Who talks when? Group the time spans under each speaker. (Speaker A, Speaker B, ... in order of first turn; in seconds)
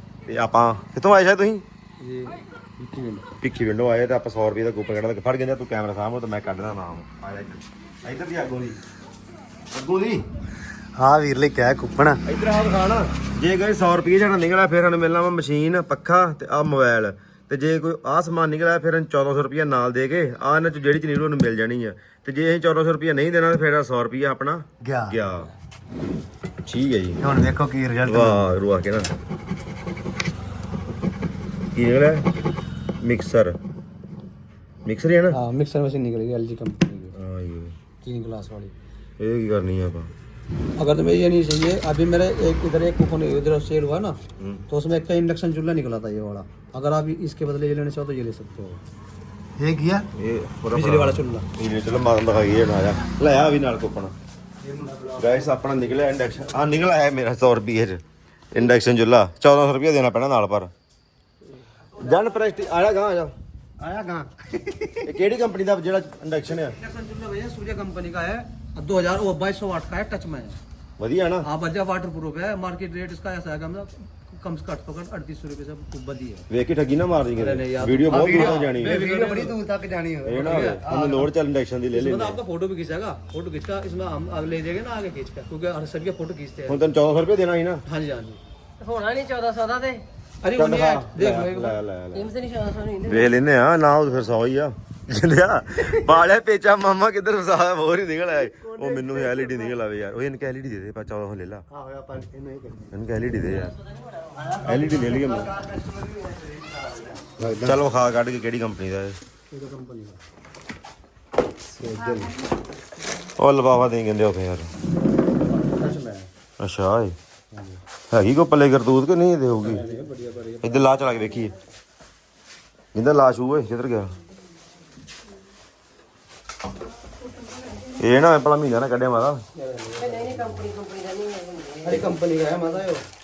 Speaker A: 0.3-1.6, 3.4-8.8, 9.7-10.2, 12.2-25.5, 26.6-27.2, 28.0-29.1, 31.7-32.3, 33.0-33.6, 34.9-35.4, 37.1-37.7, 39.2-40.1, 50.1-54.1, 55.1-60.7, 62.0-63.3, 65.0-66.8, 71.0-71.5, 76.5-79.1, 80.2-82.4, 86.7-87.8, 90.5-92.3, 93.0-101.7, 102.9-103.8, 104.6-105.5, 107.6-109.2, 113.2-114.7, 116.6-117.2, 118.1-119.9, 120.6-121.5, 122.9-124.1, 127.9-129.4
Speaker B: 2.0-3.3, 11.0-12.2, 24.8-25.1, 27.2-28.5, 35.3-37.1, 38.0-38.7, 40.8-48.8, 49.6-50.1, 50.7-51.5, 54.7-55.3, 63.8-65.0, 66.8-70.6, 71.4-76.5, 77.4-81.3, 81.9-86.9, 87.9-88.4, 90.4-91.8, 101.7-102.9, 104.4-107.8, 109.5-110.2, 111.8-112.4, 115.5-116.3, 119.7-120.8, 129.6-130.6, 131.8-133.1
Speaker C: 88.8-90.0, 92.1-93.3, 130.0-131.9